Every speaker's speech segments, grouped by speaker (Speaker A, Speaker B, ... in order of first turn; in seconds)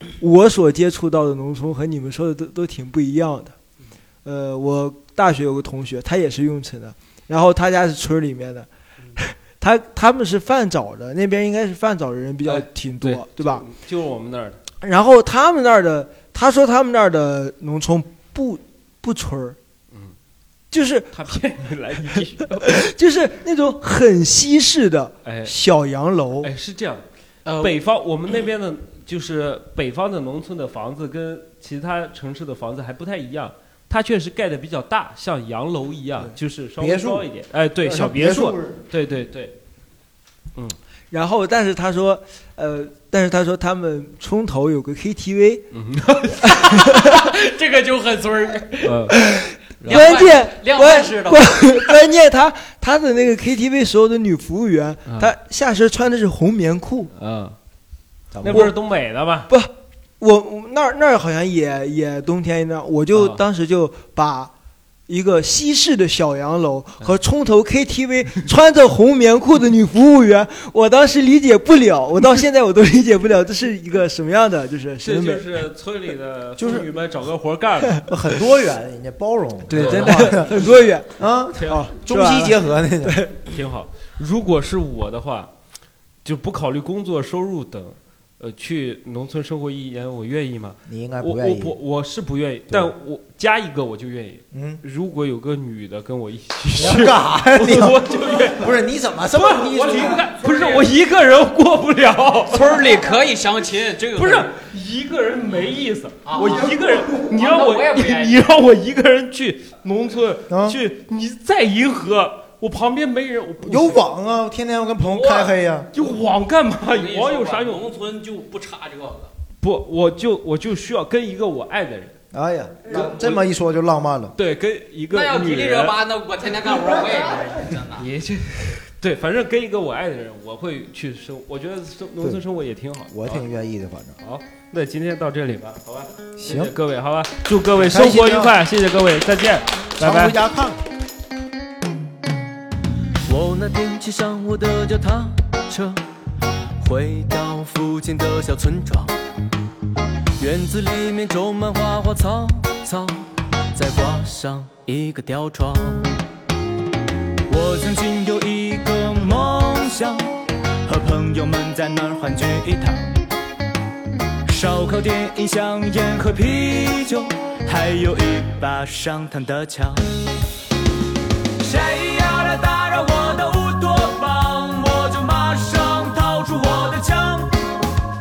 Speaker A: 0.2-3.5, 4.2-13.6, 14.8-19.6, 20.7-21.4, 22.6-26.5, 41.1-45.7, 46.7-47.1, 49.1-57.1, 58.5-58.7, 59.5-64.5, 65.1-75.5, 79.7-81.1, 81.7-83.3
Speaker B: 12.4-14.6, 21.1-22.8, 25.2-25.6, 26.4-27.0, 27.6-39.5, 45.7-46.5, 48.8-49.2, 49.8-50.2, 55.0-55.3, 57.1-57.6, 58.4-59.5, 63.1-63.4, 75.0-78.1, 79.7-80.8, 81.5-82.0, 83.5-85.5, 86.2-98.7, 99.3-103.0, 104.2-114.0, 115.9-117.8, 119.6-122.2, 122.9-123.4, 124.3-126.0, 128.0-133.4, 134.2-140.4
Speaker C: 27.4-27.8, 46.6-49.0, 49.9-51.9, 99.7-100.9, 102.5-104.5, 106.2-108.5, 115.0-115.5, 116.9-119.3, 125.1-128.1
Speaker D: 36.8-38.8, 58.3-58.7, 76.6-76.9, 78.1-83.2, 90.8-91.8, 92.7-92.9, 94.5-94.8, 96.7-100.2, 110.5-110.8, 113.6-115.9, 122.3-124.3, 132.2-132.4, 133.1-134.2, 136.4-136.7, 137.7-138.6, 140.0-140.8
Speaker E: 143.2-146.0, 146.8-149.1, 150.4-156.2, 157.5-163.2, 164.4-170.0, 171.6-177.6